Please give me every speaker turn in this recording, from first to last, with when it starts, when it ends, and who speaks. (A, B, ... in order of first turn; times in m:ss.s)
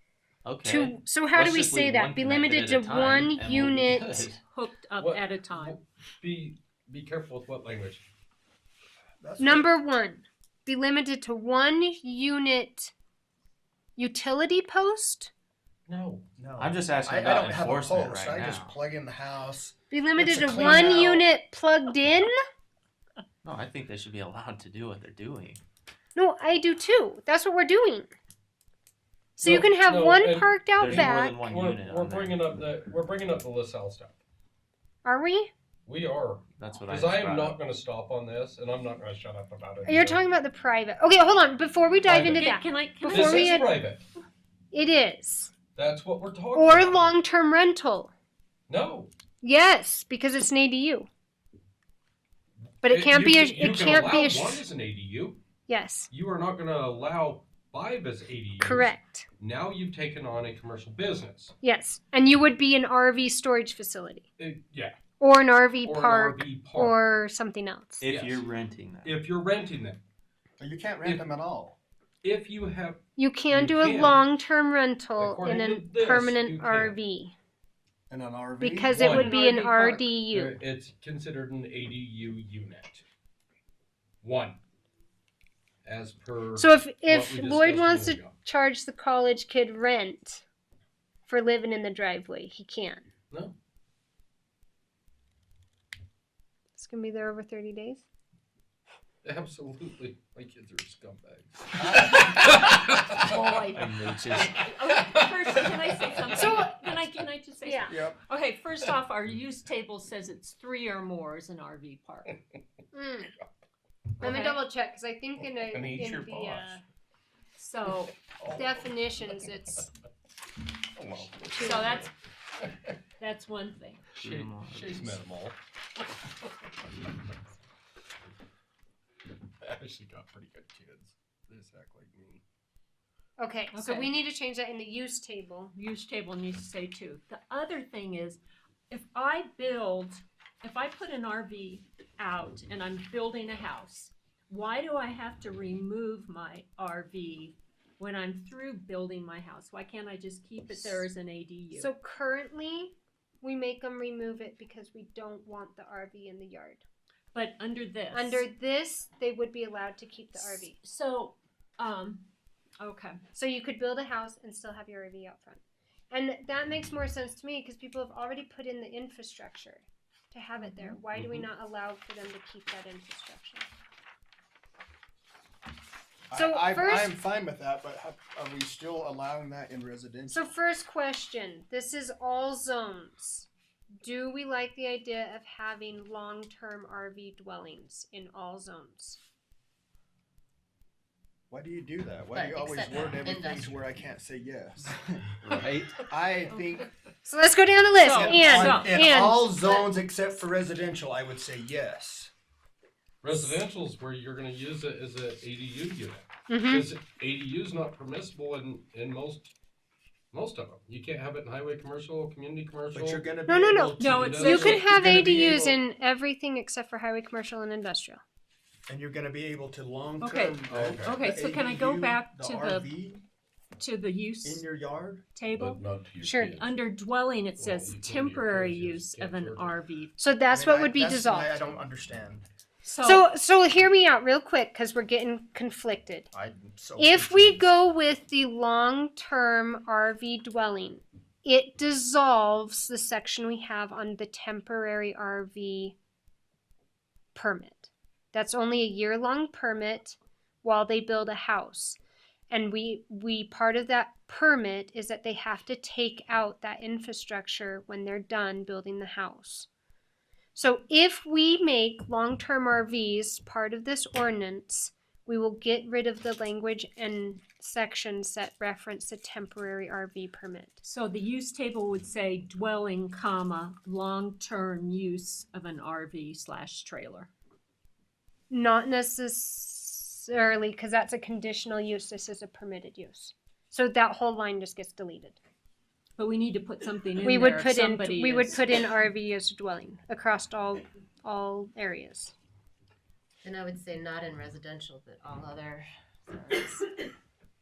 0:00.4-0:04.4 A
0:00.6-0:04.4 B
0:04.4-0:05.8 C
0:05.0-0:08.0 D
0:09.2-0:09.7 E
0:09.4-0:12.9 B
0:14.0-0:15.3 B
0:15.9-0:16.3 D
0:16.4-0:21.2 E
0:16.6-0:18.8 A
0:19.9-0:22.3 B
0:20.6-0:21.2 D
0:23.4-0:25.6 A
0:26.2-0:28.1 B
0:29.4-0:31.4 B
0:29.4-0:34.2 D
0:30.8-0:32.6 A
0:35.0-0:35.5 B
0:35.9-0:40.2 D
0:36.6-0:37.6 A
0:39.9-0:43.7 B
0:42.1-0:42.6 D
0:42.3-0:43.6 C
0:43.1-0:44.0 D
0:44.7-0:45.5 B
0:45.8-0:47.2 D
0:46.6-0:48.1 B
0:48.7-0:49.1 D
0:49.4-0:51.1 B
0:52.8-0:55.4 D
0:52.8-0:54.7 B
0:55.7-0:56.1 B
0:56.1-1:01.6 D
0:58.6-0:59.3 B
1:01.6-1:04.3 B
1:04.4-1:05.0 D
1:05.2-1:08.0 B
1:05.8-1:07.1 D
1:08.0-1:09.2 A
1:08.0-1:08.4 D
1:09.0-1:10.0 D
1:10.6-1:11.8 E
1:11.0-1:11.3 D
1:12.2-1:14.2 D
1:13.2-1:17.3 B
1:15.2-1:17.0 D
1:18.1-1:19.2 E
1:18.6-1:20.6 B
1:18.9-1:23.0 D
1:19.1-1:20.1 C
1:24.2-1:24.6 D
1:25.8-1:28.4 D
1:26.6-1:30.4 B
1:31.3-1:33.0 B
1:33.3-1:33.6 D
1:36.8-1:38.0 B
1:39.2-1:43.6 D
1:41.8-1:42.1 E
1:42.9-1:52.4 C
1:43.7-1:44.6 A
1:46.3-1:46.8 B
1:47.6-1:48.0 B
1:47.9-1:48.2 E
1:52.9-1:53.3 B
1:54.2-1:54.6 C
1:54.2-1:56.8 B
1:55.4-1:56.8 D
1:57.6-1:58.3 C
1:58.4-1:58.9 D
1:58.4-1:59.9 B
2:00.9-2:02.1 D
2:01.5-2:02.1 B
2:01.6-2:02.1 C
2:03.2-2:04.1 C
2:04.2-2:05.2 A
2:04.2-2:05.6 D
2:09.6-2:12.4 D
2:13.4-2:15.7 B
2:13.7-2:14.2 C
2:15.8-2:31.9 C
2:31.7-2:36.8 B
2:37.3-2:38.5 C
2:38.1-2:40.8 B
2:40.3-2:42.3 C
2:42.8-2:43.2 C
2:43.3-2:45.6 B
2:46.1-2:53.7 B
2:50.6-2:51.0 C
2:51.2-2:51.5 D
2:56.3-3:00.5 E
2:56.3-2:57.1 B
3:00.3-3:03.5 B
3:04.0-3:09.2 B
3:11.5-3:16.9 E
3:12.3-3:13.9 F
3:15.4-3:15.9 A
3:16.5-3:16.8 C
3:17.2-3:19.8 B
3:17.9-3:19.2 C
3:18.1-3:22.3 E
3:23.2-3:29.5 D
3:26.5-3:26.9 B
3:30.3-3:33.3 D
3:32.9-3:35.6 E
3:33.5-3:38.2 B
3:34.0-3:35.2 C
3:34.0-3:35.8 D
3:38.9-3:43.2 E
3:40.2-3:42.9 C
3:40.7-3:41.2 D
3:43.8-3:44.7 C
3:44.4-3:45.2 E
3:45.4-3:45.8 C
3:45.6-3:46.8 D
3:46.2-3:46.6 B
3:46.6-3:50.2 C
3:47.6-3:49.8 D
3:50.2-3:51.6 B
3:50.5-3:52.4 E
3:52.8-3:53.3 C
3:53.0-3:56.3 B
3:56.3-3:57.7 E
3:57.0-4:06.0 B
4:07.4-4:12.0 B
4:12.5-4:19.7 B
4:20.6-4:30.8 B
4:30.8-4:37.3 C
4:38.5-4:45.4 B
4:46.2-4:48.7 C
4:47.2-4:52.3 B
4:53.4-4:56.9 F